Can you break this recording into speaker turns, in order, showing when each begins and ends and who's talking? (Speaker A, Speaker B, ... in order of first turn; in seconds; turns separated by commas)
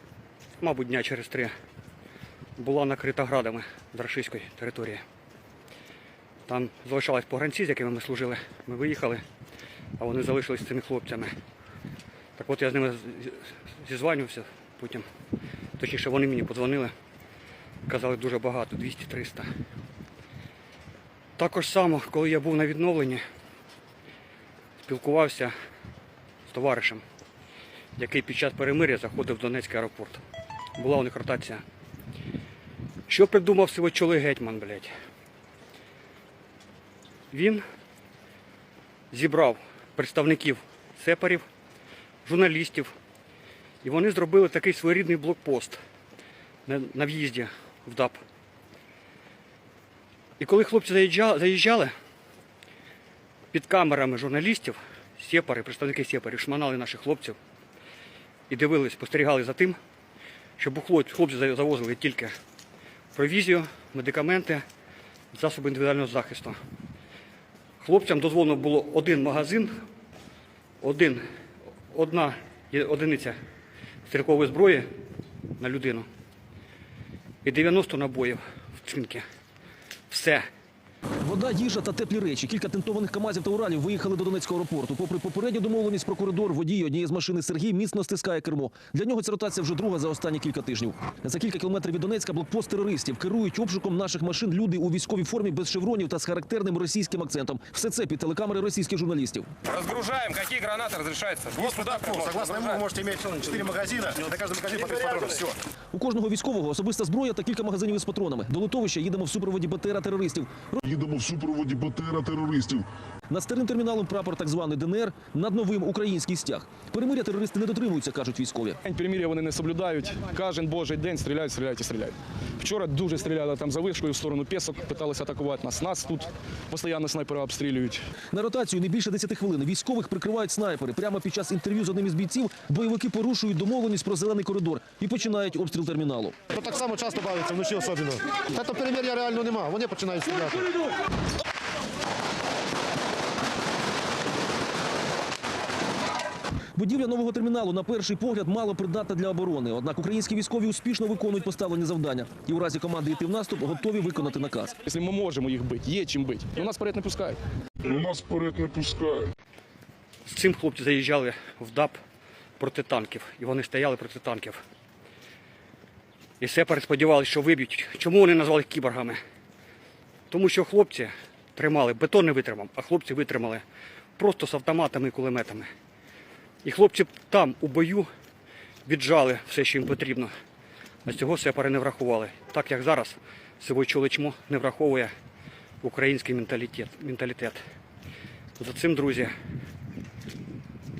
Speaker A: 0.6-1.5, Speaker A: 2.6-5.0, Speaker A: 6.5-9.2, Speaker A: 10.0-11.3, Speaker A: 12.4-15.1, Speaker A: 15.8-16.9, Speaker A: 17.9-19.5, Speaker A: 21.4-23.2, Speaker A: 24.8-25.5, Speaker A: 26.5-27.0, Speaker A: 28.0-30.2, Speaker A: 30.8-31.6, Speaker A: 33.1-34.9, Speaker A: 37.3-37.6, Speaker A: 39.1-41.5, Speaker A: 42.2-42.9, Speaker A: 43.8-45.8, Speaker A: 46.6-48.2, Speaker A: 50.4-51.9, Speaker A: 53.5-57.4, Speaker A: 58.5-59.8, Speaker A: 60.6-62.3, Speaker A: 63.1-64.6, Speaker A: 65.3-66.6, Speaker A: 67.8-69.8, Speaker A: 70.8-71.2, Speaker A: 71.9-73.4, Speaker A: 74.0-74.9, Speaker A: 75.6-76.1, Speaker A: 77.4-79.2, Speaker A: 80.1-80.5, Speaker B: 81.2-99.5, Speaker C: 99.7-102.5, Speaker D: 101.5-105.5, Speaker B: 105.9-110.8, Speaker E: 110.8-112.8, Speaker B: 113.3-118.8, Speaker F: 118.8-128.0, Speaker B: 128.3-136.4, Speaker D: 136.5-140.9, Speaker B: 146.7-154.8, Speaker F: 154.8-157.4, Speaker E: 157.8-159.3, Speaker A: 160.2-162.0, Speaker A: 162.6-164.6, Speaker A: 166.4-169.2, Speaker A: 170.3-173.6, Speaker A: 174.2-175.7, Speaker A: 176.6-178.1, Speaker A: 178.8-180.3, Speaker A: 181.1-185.1, Speaker A: 185.8-187.6, Speaker A: 188.6-189.3